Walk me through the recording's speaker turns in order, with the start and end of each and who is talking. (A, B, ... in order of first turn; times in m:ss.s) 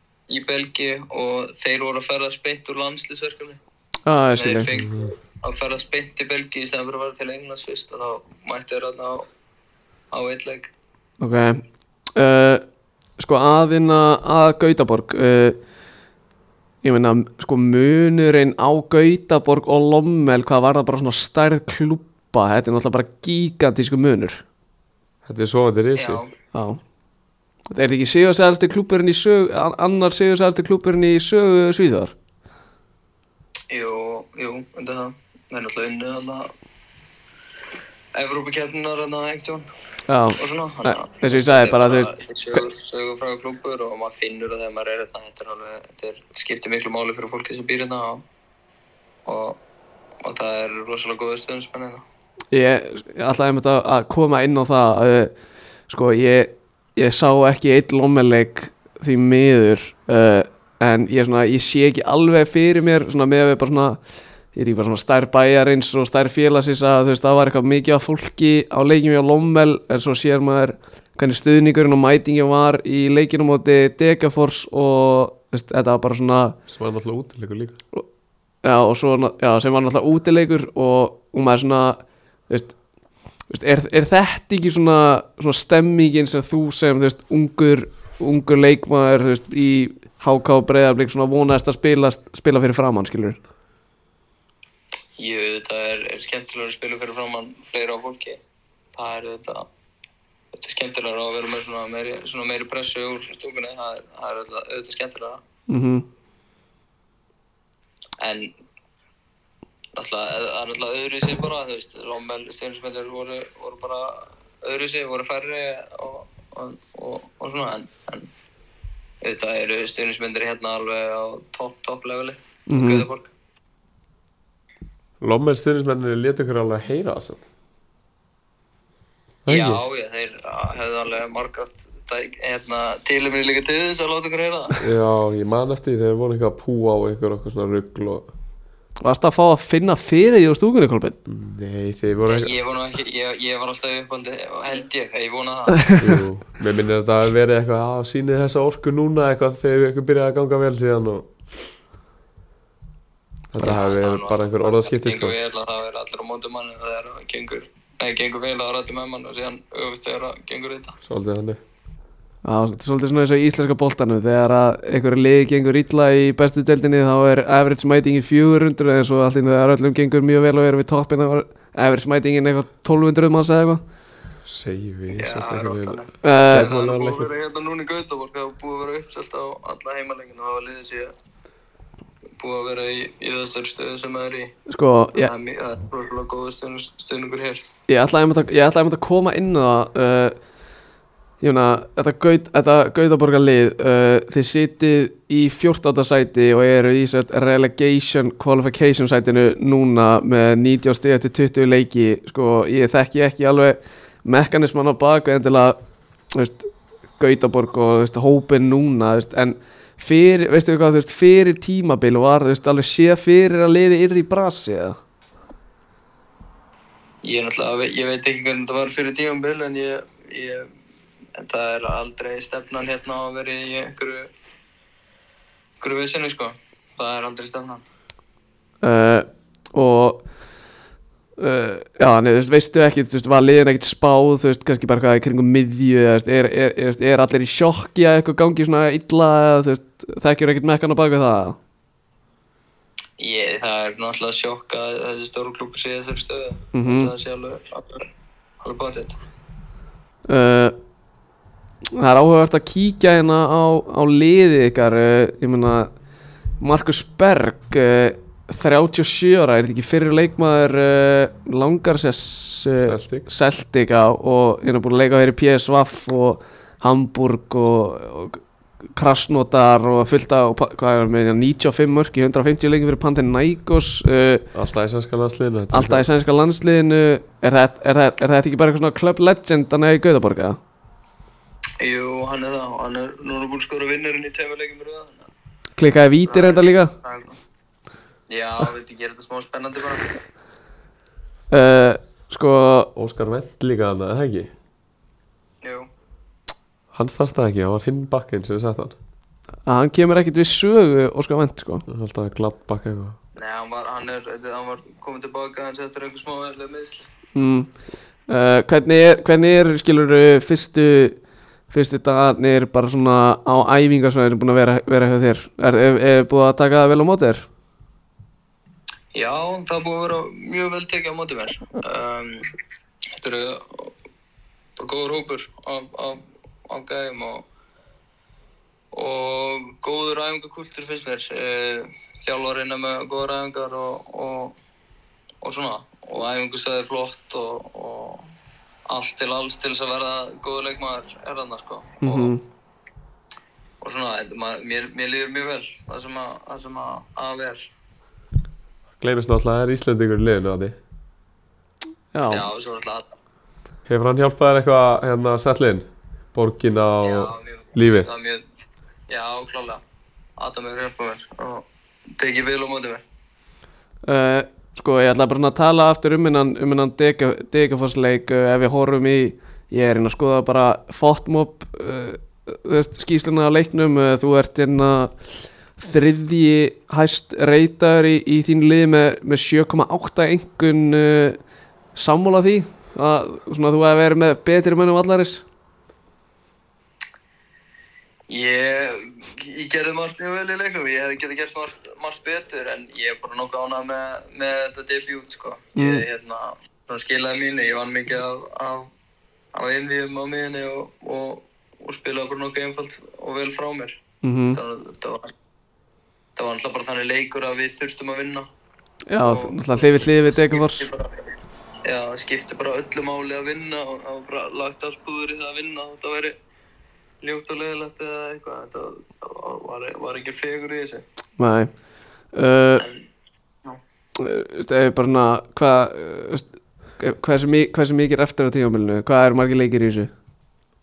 0:00.3-0:03.6 A
0:04.0-0:04.7 B
0:04.4-0:09.3 A
0:04.7-0:05.1 C
0:10.1-0:10.7 A
0:11.2-0:11.6 B
0:12.2-0:12.6 B
0:13.2-0:15.6 B
0:16.8-0:24.4 B
0:25.2-0:26.2 C
0:26.0-0:26.3 A
0:26.5-0:26.8 B
0:27.7-0:32.1 B
0:33.7-0:36.5 A
0:38.1-0:39.7 A
0:40.1-0:42.6 B
0:40.4-0:48.2 A
0:49.2-0:49.6 A
0:50.2-0:52.0 A
0:52.5-0:55.3 B
0:55.9-1:04.0 B
1:04.5-1:16.6 B
1:16.7-1:17.8 C
1:18.6-1:22.8 B
1:23.5-1:33.4 B
1:35.2-1:38.4 A
1:38.9-1:39.7 A
1:40.5-1:45.4 A
1:45.7-1:46.0 B
1:48.2-1:48.5 A
1:49.9-1:58.3 A
1:59.2-2:03.3 A
2:02.7-2:03.1 B
2:05.2-2:07.4 C
2:09.4-2:09.8 C
2:09.5-2:14.8 A
2:14.8-2:18.3 C
2:19.0-2:21.2 B
2:21.2-2:22.5 C
2:22.3-2:25.9 A
2:25.8-2:26.2 B
2:26.0-2:31.7 C
2:33.5-2:35.4 C
2:33.6-2:41.0 A
2:41.0-2:41.6 C
2:42.4-2:53.8 B
2:54.4-2:57.3 C
2:55.2-3:01.1 A
2:56.2-2:56.7 B
3:02.4-3:04.5 A
3:04.7-3:05.3 B
3:05.2-3:07.6 A
3:07.9-3:10.4 B
3:11.4-3:25.8 B
3:26.3-3:35.0 B
3:37.2-3:40.7 A
3:41.4-3:44.3 A
3:45.8-3:47.8 A
3:48.8-3:50.2 B
3:51.4-4:01.6 B
4:03.2-4:08.1 A
4:06.7-4:07.1 B
4:08.6-4:09.2 A
4:10.3-4:10.7 B
4:11.9-4:15.9 B
4:16.6-4:28.4 B
4:22.8-4:23.3 C
4:29.0-4:34.5 B
4:34.5-4:36.0 C
4:35.7-4:40.6 B
4:41.8-4:45.3 A
4:45.8-4:46.9 B
4:46.2-4:47.4 A
4:48.3-4:50.1 A
4:51.5-4:52.9 B
4:53.0-4:54.5 C
4:55.6-4:55.9 A
4:56.9-4:59.0 C
4:59.6-5:01.8 B
5:01.9-5:03.2 C
5:03.4-5:07.1 A
5:07.3-5:07.7 B
5:08.3-5:11.2 B
5:11.7-5:17.5 B
5:19.1-5:22.5 A
5:23.1-5:23.9 A
5:24.8-5:27.4 A
5:28.9-5:34.6 A
5:35.4-5:38.3 A
5:38.9-5:42.3 A
5:42.0-5:42.4 B
5:43.8-5:47.7 A
5:49.0-5:50.8 C
5:52.1-5:52.4 B
5:52.3-5:53.1 A
5:53.9-5:58.1 C
5:57.0-5:58.4 A
5:59.1-5:59.8 A
6:00.4-6:01.6 A
6:02.2-6:03.0 A
6:04.0-6:15.1 B
6:15.8-6:21.4 B
6:21.9-6:25.4 B
6:28.3-6:38.9 A
6:35.8-6:36.0 B
6:39.5-6:44.0 A
6:44.2-6:44.6 B
6:44.5-6:45.3 A
6:46.4-6:48.5 A
6:49.1-6:50.9 B
6:49.2-6:51.3 A
6:51.8-6:56.4 A
6:57.2-7:01.0 A
7:01.4-7:01.7 B
7:02.3-7:02.8 B
7:04.2-7:06.5 B
7:07.0-7:10.1 B